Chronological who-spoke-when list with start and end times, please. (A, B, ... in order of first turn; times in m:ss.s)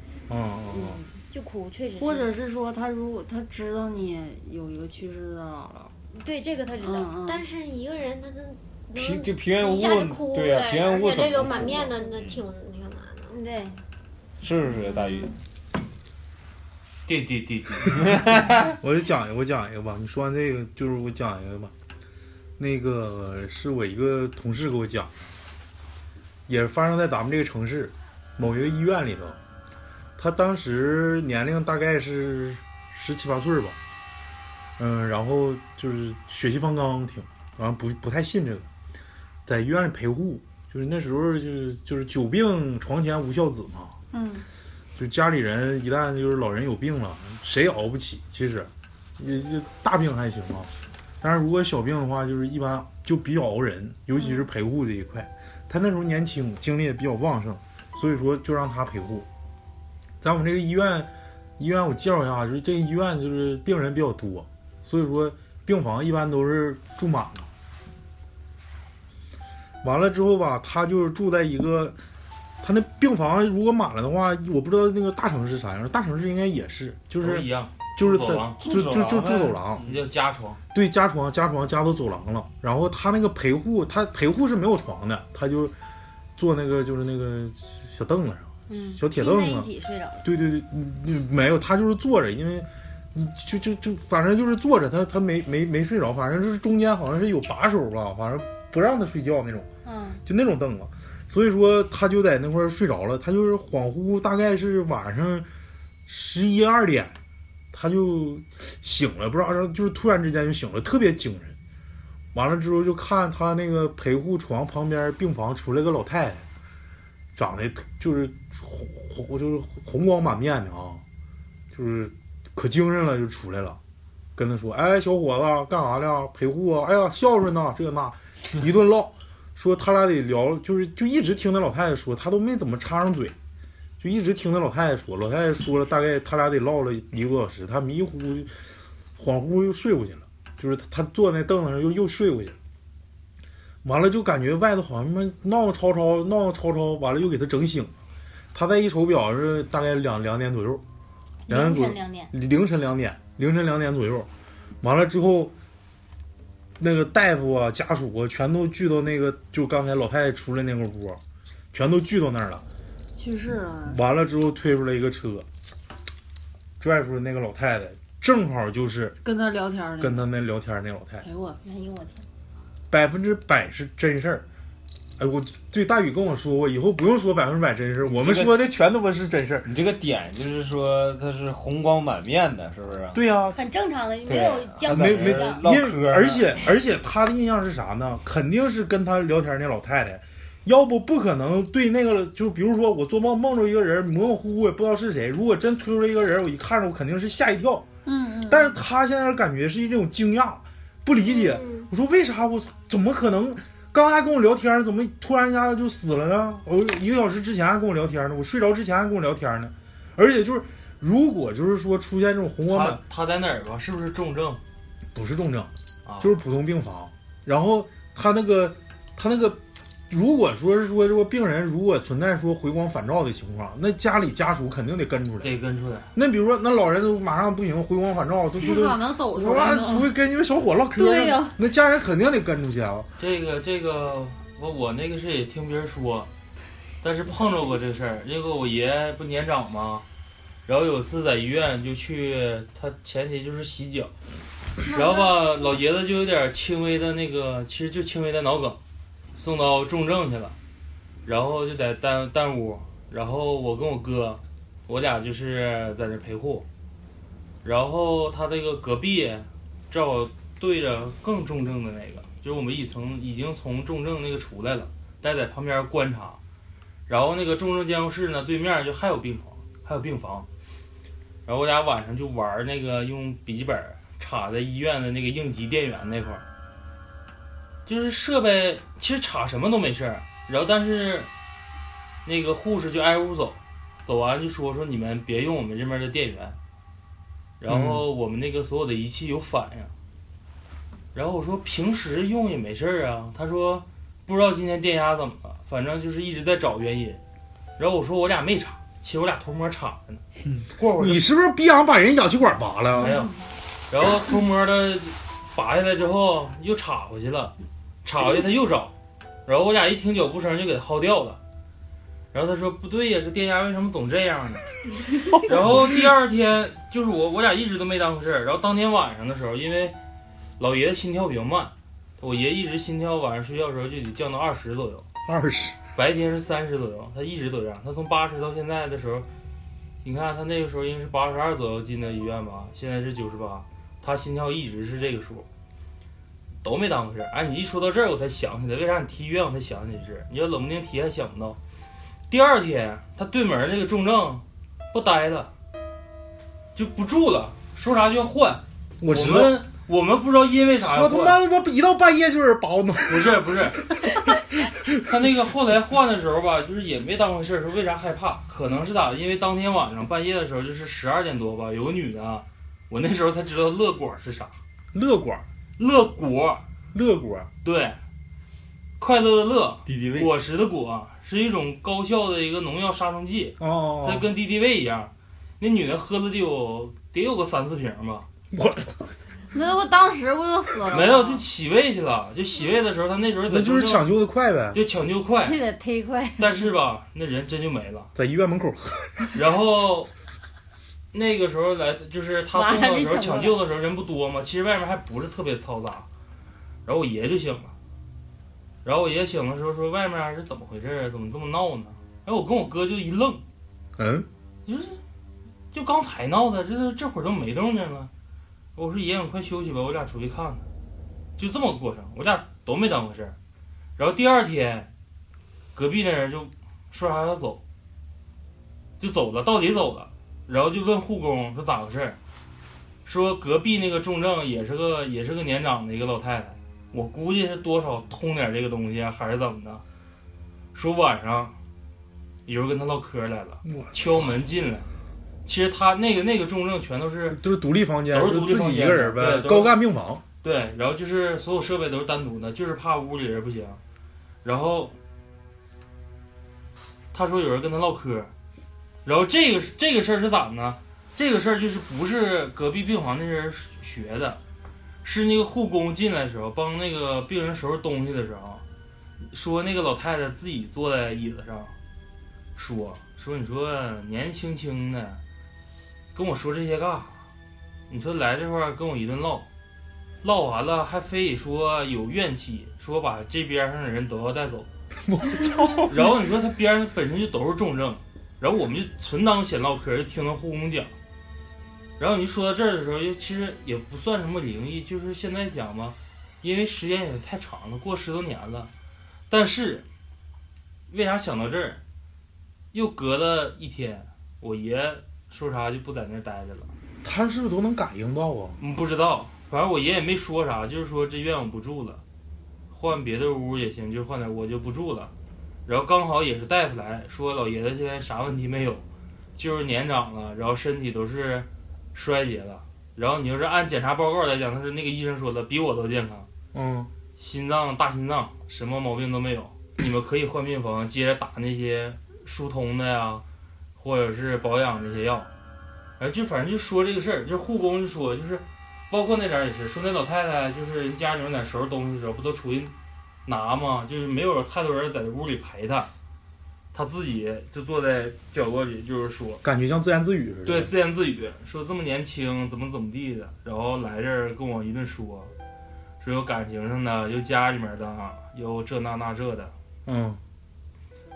0:00.3-0:01.0 A
0:00.7-0:02.3 B
0:02.0-0:05.9 C
0:06.1-0:07.1 B
0:06.8-0:07.4 C
0:07.2-0:13.4 D
0:08.9-0:12.4 E
0:13.3-0:13.8 B
0:14.4-0:15.3 E
0:14.8-0:15.3 D
0:17.0-0:18.2 F
0:18.0-0:18.7 E
0:18.6-0:21.7 A
0:22.6-0:25.1 A
0:26.5-0:29.4 A
0:30.2-0:33.8 A
0:34.8-0:38.7 A
0:39.4-0:44.0 A
0:44.1-0:44.4 C
0:45.0-0:59.3 A
0:54.2-0:54.5 C
1:00.2-1:07.5 A
1:09.8-1:12.0 A
1:12.6-1:19.8 A
1:17.2-1:18.6 F
1:18.6-1:20.0 E
1:19.8-1:20.6 F
1:20.7-1:25.7 A
1:26.4-1:29.7 A
1:28.7-1:30.2 B
1:30.2-1:39.7 A
1:39.8-1:40.2 B
1:40.2-1:45.5 A
1:46.1-1:47.2 A
1:47.7-1:51.6 A
1:52.3-1:56.4 A
1:57.4-2:01.0 A
2:01.7-2:03.8 A
2:04.4-2:13.3 A
2:14.0-2:18.5 A
2:19.2-2:22.6 A
2:23.8-2:27.9 A
2:28.5-2:30.8 A
2:31.5-2:32.3 B
2:31.5-2:34.3 A
2:34.8-2:35.5 A
2:36.8-2:41.2 A
2:41.7-2:42.6 A
2:43.2-2:44.0 C
2:43.8-2:45.4 A
2:46.8-2:49.2 A
2:49.2-2:50.2 C
2:50.0-2:51.3 A
2:51.2-2:51.6 C
2:51.6-2:52.2 B
2:52.9-2:54.4 A
2:55.2-2:59.7 A
2:58.0-2:58.6 E
2:59.6-3:03.2 E
3:03.1-3:03.6 A
3:03.5-3:05.6 B
3:04.2-3:06.6 E
3:04.9-3:17.9 A
3:18.0-3:18.7 C
3:18.4-3:33.0 A
3:21.2-3:21.9 D
3:32.7-3:34.6 F
3:35.1-3:45.5 A
3:36.0-3:36.4 F
3:45.4-3:46.1 F
3:46.1-3:53.1 A
3:48.6-3:50.1 C
3:51.0-3:51.5 C
3:53.2-3:56.3 F
3:57.0-4:00.0 F
4:00.6-4:04.1 F
4:04.9-4:08.8 F
4:04.9-4:05.3 C
4:09.4-4:10.6 F
4:11.2-4:16.6 F
4:17.6-4:26.4 F
4:27.1-4:30.5 F
4:31.4-4:36.4 F
4:37.8-4:41.3 F
4:42.2-4:46.6 F
4:47.6-4:49.9 F
4:47.7-4:48.0 A
4:51.1-4:57.2 F
4:57.8-5:00.2 F
5:00.8-5:01.2 F
5:01.0-5:03.1 A
5:03.0-5:03.3 F
5:03.0-5:03.3 C
5:03.9-5:08.9 F
5:09.4-5:11.4 F
5:12.3-5:14.6 F
5:15.3-5:15.9 A
5:15.4-5:20.0 F
5:20.6-5:25.0 F
5:25.2-5:25.8 A
5:26.0-5:29.3 F
5:30.0-5:35.5 F
5:36.6-5:41.6 F
5:42.3-5:45.5 F
5:46.7-5:51.4 F
5:49.0-5:49.6 A
5:50.8-5:54.3 A
5:53.1-5:53.8 F
5:55.0-6:04.6 F
6:04.9-6:05.4 A
6:05.8-6:06.6 F
6:06.9-6:07.5 A
6:07.6-6:08.0 F
6:09.0-6:18.3 F
6:09.8-6:10.3 E
6:13.6-6:14.3 A
6:18.5-6:19.0 A
6:19.5-6:21.4 C
6:20.9-6:24.1 F
6:23.5-6:24.8 A
6:24.7-6:25.6 F
6:25.4-6:26.6 C
6:26.4-6:28.1 F
6:28.1-6:29.4 A
6:29.3-6:30.1 F
6:31.1-6:36.1 F
6:32.5-6:33.6 C
6:36.8-6:37.7 F
6:38.8-6:43.4 F
6:44.0-6:44.3 A
6:44.6-6:45.0 F
6:45.7-6:48.1 F
6:48.8-6:50.6 F
6:51.4-6:53.4 F
6:54.0-6:54.9 F
6:55.7-6:57.6 F
6:59.0-7:02.2 F
7:03.0-7:09.8 F
7:10.7-7:11.6 F
7:12.4-7:14.9 F
7:13.6-7:14.2 A
7:15.4-7:17.4 F
7:17.3-7:20.2 A
7:18.1-7:19.8 F
7:20.4-7:23.8 F
7:24.4-7:25.0 F
7:27.1-7:28.3 F
7:29.0-7:34.4 F
7:35.0-7:38.6 F
7:39.3-7:41.7 F
7:42.5-7:45.2 F
7:46.1-7:47.2 F
7:47.9-7:49.5 F
7:50.2-7:54.7 F
7:55.0-7:56.1 A
7:55.9-8:00.9 F
8:02.0-8:08.7 F
8:09.3-8:09.8 F
8:10.9-8:11.8 F
8:12.7-8:16.7 F
8:17.0-8:18.6 A
8:18.6-8:22.0 F
8:22.7-8:25.1 F
8:25.6-8:28.8 F
8:29.4-8:36.3 F
8:36.5-8:36.9 A
8:37.2-8:43.2 F
8:43.8-8:45.3 F
8:46.0-8:52.7 F
8:53.2-8:55.9 F
8:56.7-8:59.4 F
8:59.4-9:00.7 A
9:00.4-9:05.3 F
9:06.0-9:09.5 F
9:09.8-9:10.2 A